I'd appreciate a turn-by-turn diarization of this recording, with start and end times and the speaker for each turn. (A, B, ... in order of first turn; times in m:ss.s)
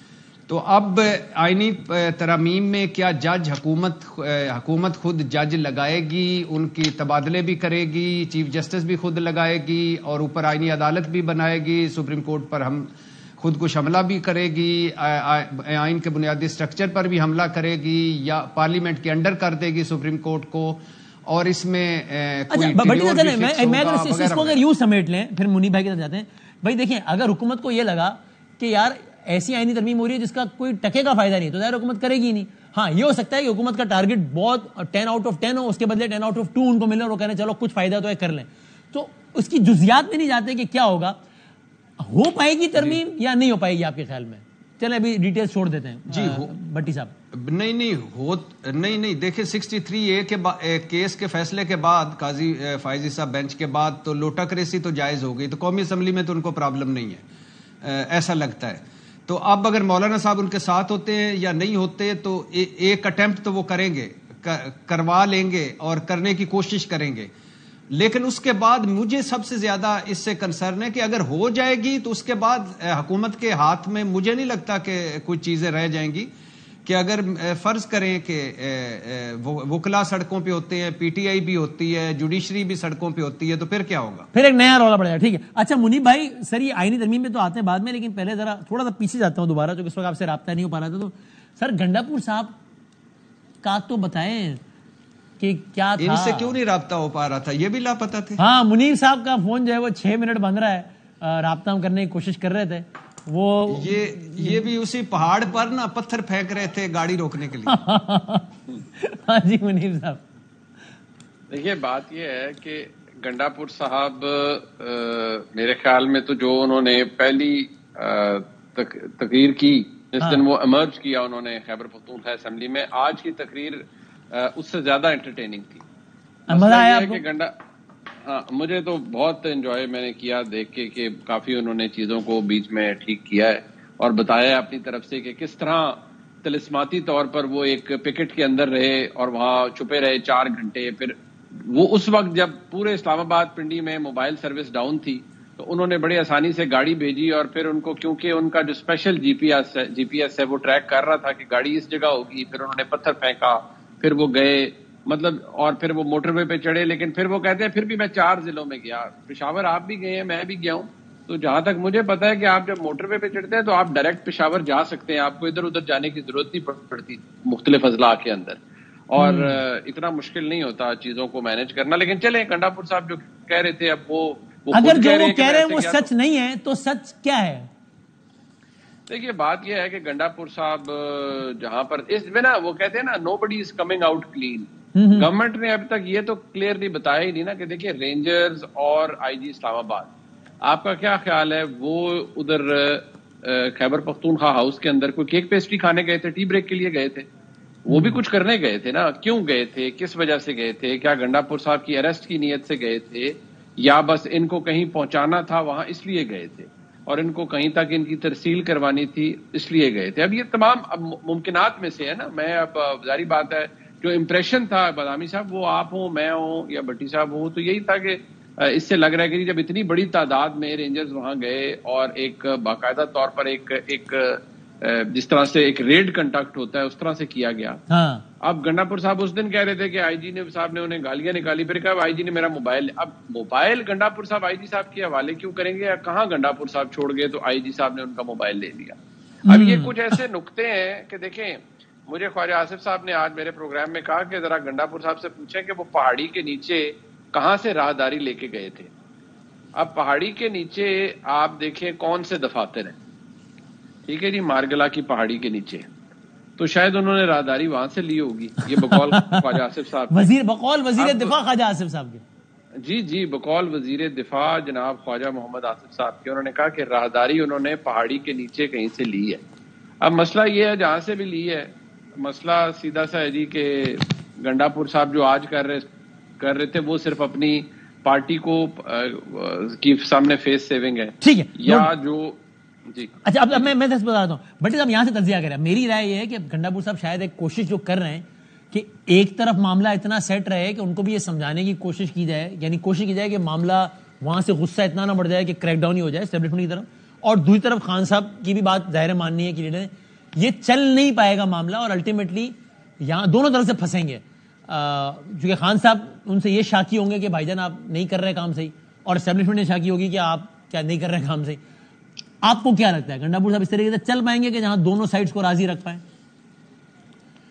0:00.5-0:24.6 A
0:22.5-0:41.2 B
0:42.0-0:47.1 B
0:46.1-0:46.5 A
0:47.3-0:57.2 A
0:57.8-1:07.3 A
1:07.9-1:16.3 A
1:16.8-1:24.3 A
1:24.3-1:32.6 B
1:33.6-1:34.6 B
1:35.4-1:36.6 B
1:36.0-1:38.4 A
1:38.4-1:44.7 B
1:43.7-1:47.8 A
1:47.7-1:50.2 B
1:51.5-2:05.8 C
2:06.5-2:07.2 B
2:06.5-2:07.5 C
2:08.2-2:56.1 C
2:49.2-2:49.6 B
2:54.7-2:57.7 B
2:59.1-3:10.1 C
3:05.0-3:05.3 B
3:10.6-3:17.3 C
3:17.8-3:47.8 C
3:17.9-3:18.2 B
3:47.9-3:48.2 B
3:48.4-4:08.9 C
3:59.5-4:00.1 B
4:09.8-4:13.0 C
4:14.1-4:15.9 C
4:16.6-4:20.3 C
4:18.8-4:19.6 B
4:20.1-4:22.2 B
4:21.0-4:21.3 C
4:22.8-4:29.4 C
4:30.0-4:35.9 C
4:36.4-4:43.7 C
4:41.2-4:41.9 B
4:43.3-5:11.6 B
5:12.4-5:16.0 B